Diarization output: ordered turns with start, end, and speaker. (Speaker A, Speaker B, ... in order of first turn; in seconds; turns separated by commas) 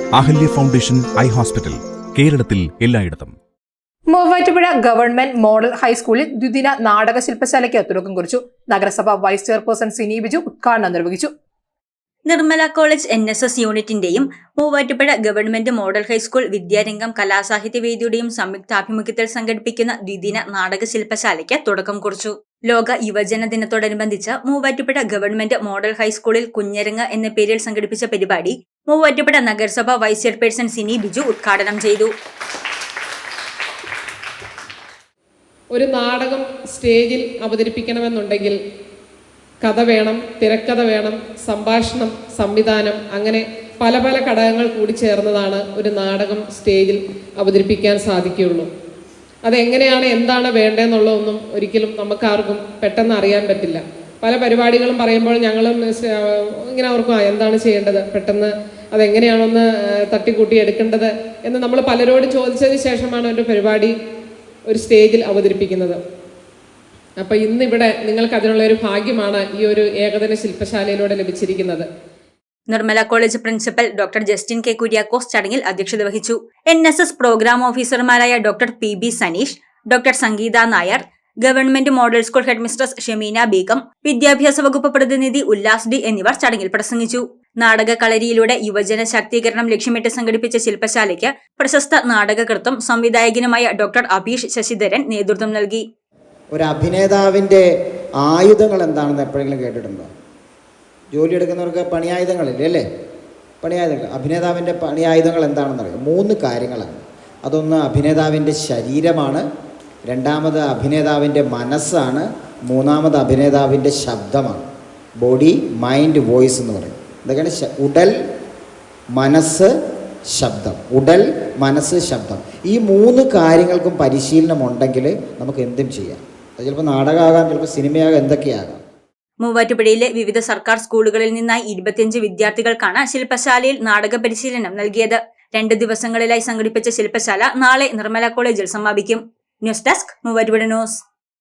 Speaker A: 0.2-3.4, Speaker B: 4.1-11.3, Speaker C: 12.3-32.1, Speaker D: 35.7-38.6, Speaker D: 39.6-48.7, Speaker D: 49.4-63.9, Speaker D: 64.7-66.0, Speaker D: 67.2-71.9, Speaker C: 72.7-95.8, Speaker E: 96.5-97.6, Speaker E: 98.2-100.1, Speaker E: 101.1-102.8, Speaker E: 103.6-109.4, Speaker E: 110.1-114.6, Speaker E: 115.2-118.1, Speaker E: 119.2-119.7, Speaker E: 120.3-128.8, Speaker C: 129.4-141.0